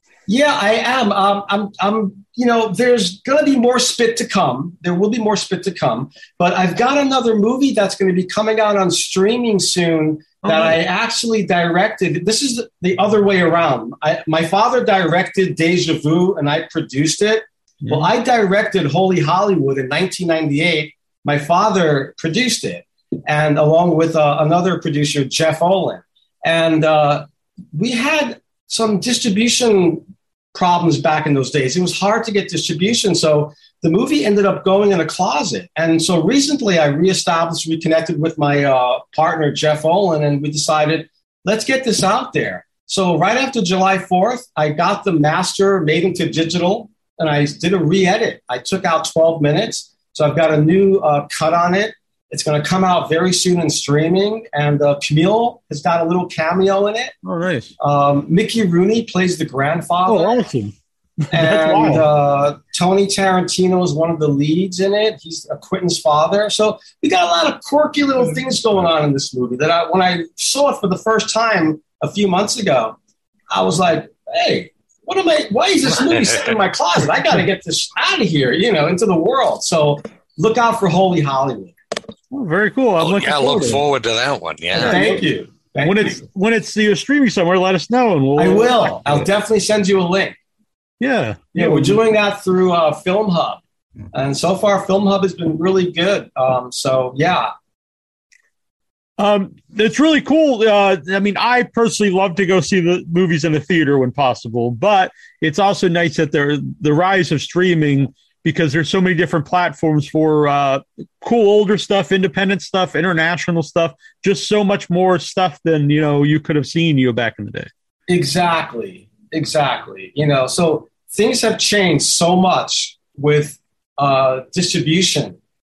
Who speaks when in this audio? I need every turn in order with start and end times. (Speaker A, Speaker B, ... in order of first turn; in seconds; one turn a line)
Speaker A: 0.3-57.1
Speaker B: 10.4-10.8
Speaker B: 17.8-18.1
Speaker B: 57.2-57.7
Speaker A: 57.8-60.4
Speaker B: 60.0-62.0
Speaker A: 61.3-73.0
Speaker A: 73.5-81.8
Speaker C: 75.9-76.5
Speaker B: 82.3-83.8
Speaker C: 83.0-85.1
Speaker B: 84.7-85.2
Speaker A: 84.8-86.2
Speaker B: 85.8-89.2
Speaker A: 88.4-90.4
Speaker B: 91.0-92.0
Speaker A: 91.5-93.6
Speaker A: 94.1-97.5
Speaker B: 99.2-117.7
Speaker A: 118.1-125.4